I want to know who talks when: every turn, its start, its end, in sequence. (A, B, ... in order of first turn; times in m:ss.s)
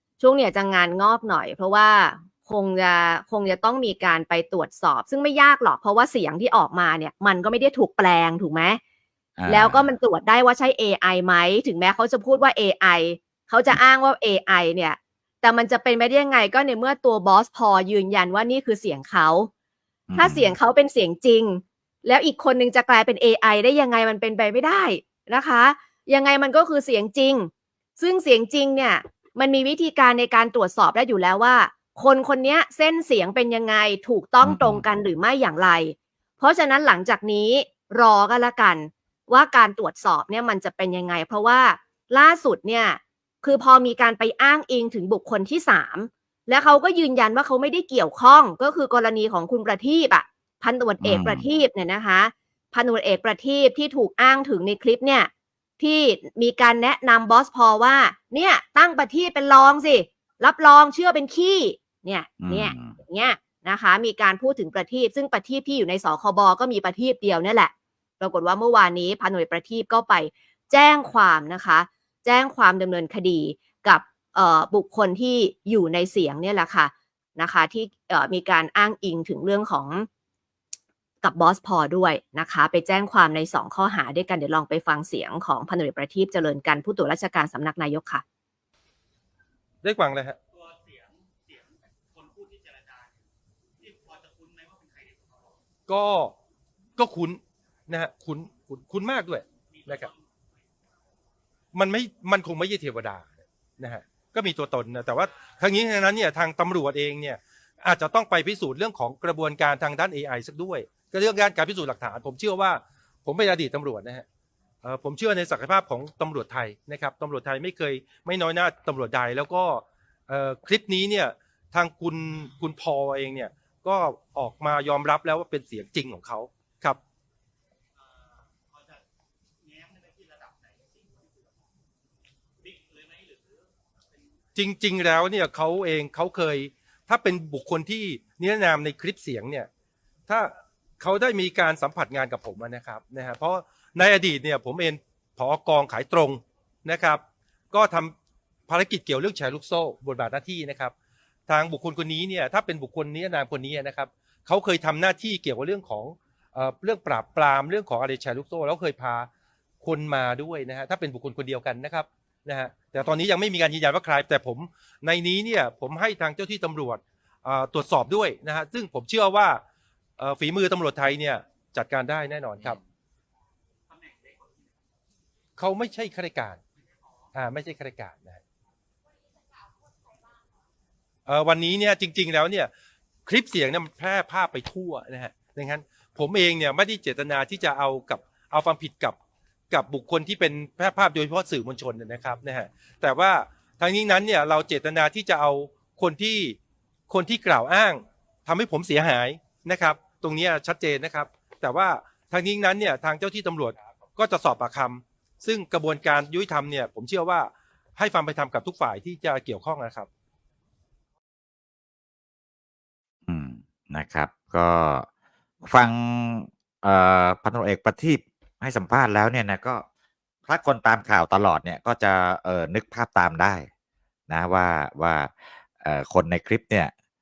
0:00.2-0:08.8 A
0:09.4-0:09.9 B
0:09.5-0:19.5 A
0:20.1-0:20.6 B
0:20.2-1:20.1 A
0:34.4-0:34.8 B
0:51.0-0:51.4 B
1:02.4-1:03.0 B
1:21.2-1:28.2 A
1:29.8-1:30.4 C
1:30.5-1:33.2 D
1:33.8-1:35.6 D
1:35.9-1:36.3 C
1:37.0-1:40.1 C
1:39.7-1:40.3 D
1:41.7-1:54.2 C
1:54.8-2:07.0 C
2:08.0-2:09.0 D
2:09.6-2:11.6 D
2:12.6-2:14.2 D
2:14.6-2:19.7 C
2:20.3-2:28.2 C
2:28.7-2:30.9 C
2:31.5-2:39.3 C
2:39.8-2:49.6 C
2:50.2-2:52.8 C
2:53.9-2:54.7 D
2:55.6-2:56.6 C
2:57.4-2:58.4 C
3:01.3-3:02.7 C
3:03.3-3:09.2 C
3:09.7-3:16.6 C
3:17.1-3:30.1 C
3:33.3-3:35.1 B
3:35.6-3:39.8 B
3:40.5-3:43.7 B
3:44.3-3:46.9 B